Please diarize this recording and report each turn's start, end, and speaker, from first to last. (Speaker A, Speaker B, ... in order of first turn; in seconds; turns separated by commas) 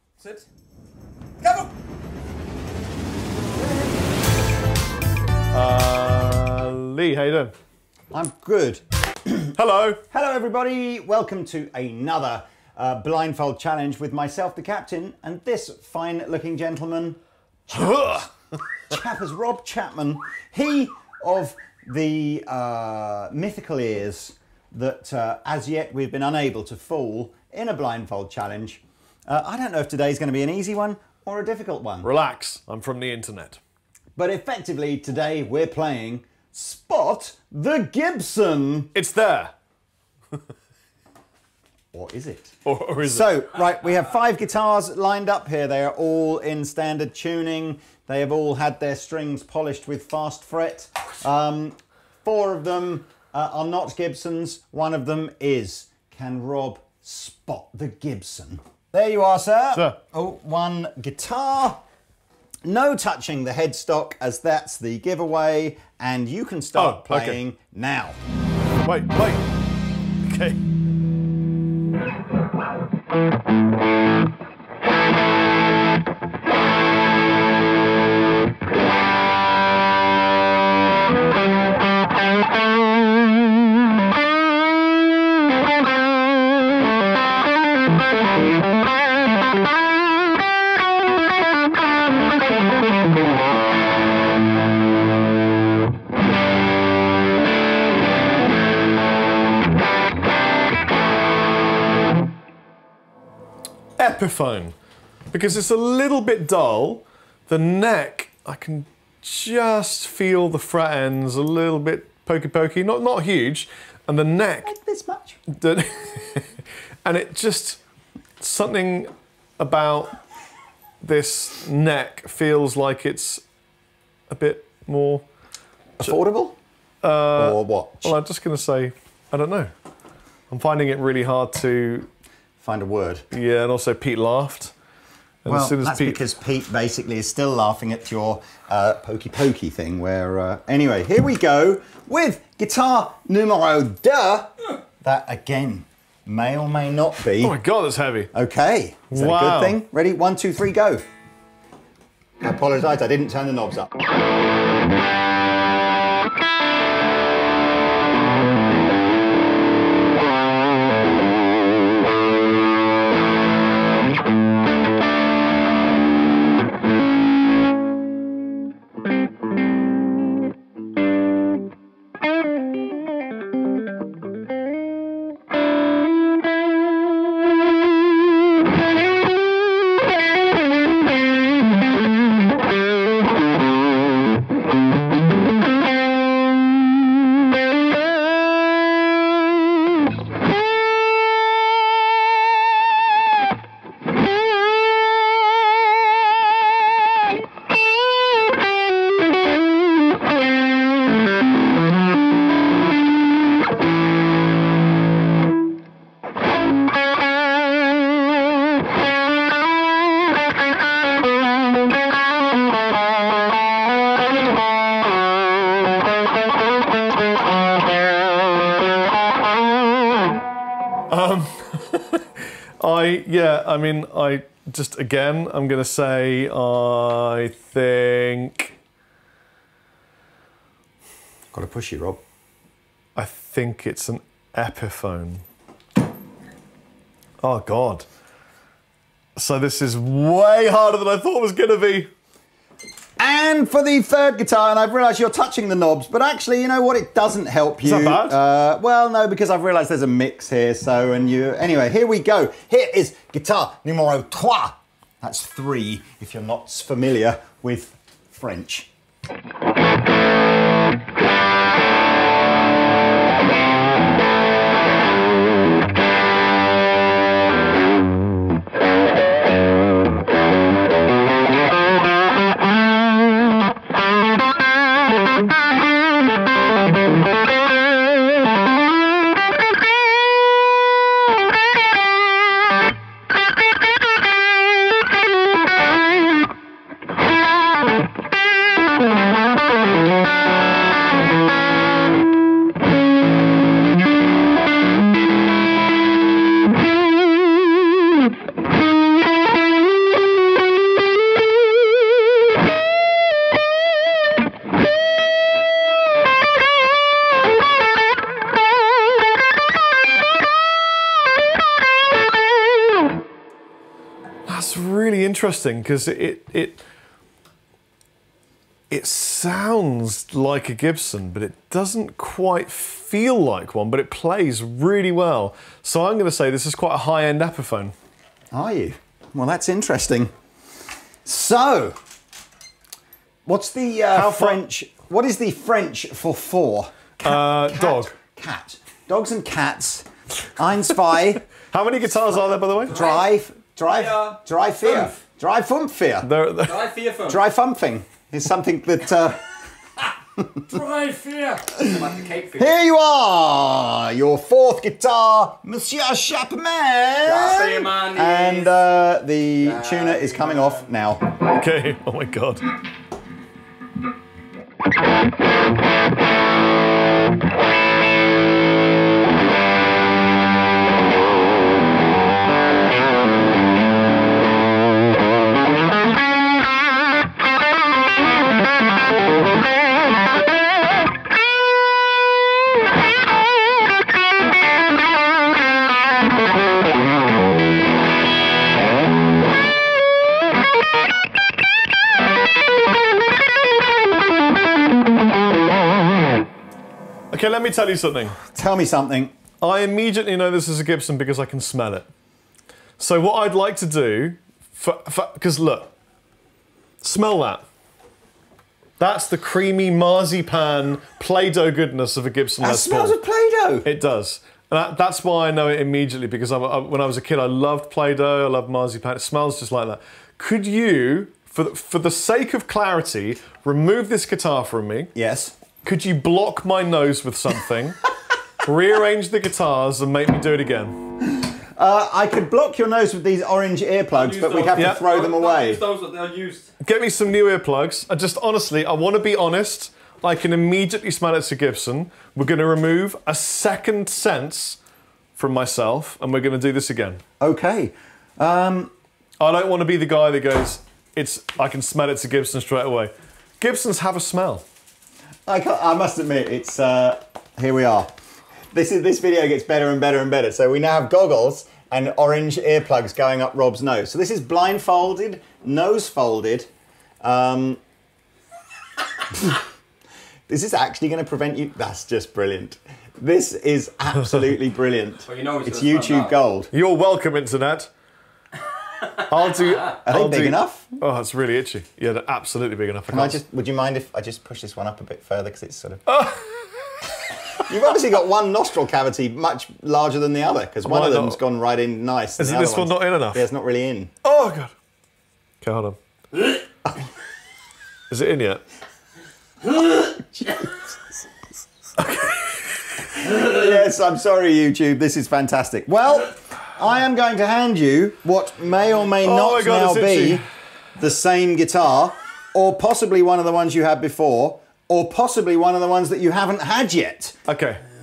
Speaker A: 0.2-0.5, Speaker B: 5.5-7.5, Speaker C: 8.1-9.5, Speaker B: 9.5-10.0, Speaker C: 10.1-17.2, Speaker B: 17.7-18.3, Speaker C: 17.7-18.1, Speaker C: 18.9-32.1, Speaker B: 32.0-33.6, Speaker C: 34.1-38.9, Speaker B: 38.9-39.5, Speaker C: 41.9-61.8, Speaker B: 42.6-43.3, Speaker C: 62.6-68.2, Speaker B: 66.7-67.4, Speaker B: 68.8-69.5, Speaker B: 70.2-70.6, Speaker B: 104.0-104.7, Speaker B: 105.3-114.7, Speaker C: 114.6-115.4, Speaker B: 115.5-116.5, Speaker B: 117.0-117.8, Speaker B: 118.4-120.2, Speaker B: 121.0-123.4, Speaker B: 124.3-125.2, Speaker C: 126.0-126.6, Speaker B: 127.0-129.7, Speaker C: 127.3-128.2, Speaker B: 130.5-132.1, Speaker C: 132.6-133.2, Speaker B: 133.3-134.7, Speaker B: 135.4-136.2, Speaker C: 135.5-144.5, Speaker C: 145.0-147.6, Speaker B: 147.4-148.3, Speaker C: 148.3-151.0, Speaker B: 149.1-149.8, Speaker C: 152.4-153.9, Speaker B: 221.1-228.7, Speaker C: 231.5-232.2, Speaker B: 233.2-235.4, Speaker B: 237.4-238.1, Speaker B: 239.3-242.1, Speaker C: 243.2-258.9, Speaker B: 247.8-248.4, Speaker B: 314.4-316.8, Speaker B: 318.9-327.9, Speaker C: 328.5-330.3, Speaker C: 331.2-332.0, Speaker C: 333.4-341.4, Speaker B: 334.1-334.6, Speaker B: 337.2-338.1, Speaker B: 341.7-343.0, Speaker C: 342.8-346.3, Speaker A: 342.9-343.2, Speaker A: 343.9-344.4, Speaker B: 346.2-346.9, Speaker A: 346.6-347.4, Speaker C: 347.2-349.4, Speaker C: 350.0-350.7, Speaker A: 350.7-352.7, Speaker C: 351.8-361.3, Speaker A: 357.2-358.8, Speaker A: 359.6-360.9, Speaker B: 361.4-362.6, Speaker B: 397.3-398.4, Speaker C: 398.5-399.3, Speaker B: 399.6-402.1, Speaker B: 403.0-405.9, Speaker B: 407.0-407.6, Speaker B: 409.0-413.2, Speaker C: 412.6-413.9, Speaker B: 413.8-425.1, Speaker C: 425.1-425.5, Speaker B: 425.8-428.1, Speaker B: 428.6-431.0, Speaker C: 431.3-435.8, Speaker A: 434.1-436.7, Speaker B: 434.7-435.1, Speaker B: 436.8-444.8, Speaker B: 445.4-447.2, Speaker C: 447.4-448.9, Speaker B: 449.4-454.6, Speaker C: 455.5-458.1, Speaker C: 458.7-466.7, Speaker C: 467.2-467.8, Speaker C: 470.5-476.7, Speaker A: 475.3-476.3, Speaker B: 476.7-477.9, Speaker B: 479.1-483.4, Speaker C: 480.1-480.9, Speaker C: 483.1-486.0, Speaker B: 486.1-487.0, Speaker C: 487.6-494.1, Speaker B: 490.8-491.4, Speaker B: 492.4-493.4, Speaker B: 494.2-494.7, Speaker B: 495.6-496.0, Speaker B: 498.1-498.6, Speaker C: 500.4-500.7, Speaker B: 502.0-503.1, Speaker C: 503.1-510.4, Speaker B: 509.2-510.4, Speaker C: 511.0-517.4, Speaker B: 517.5-517.8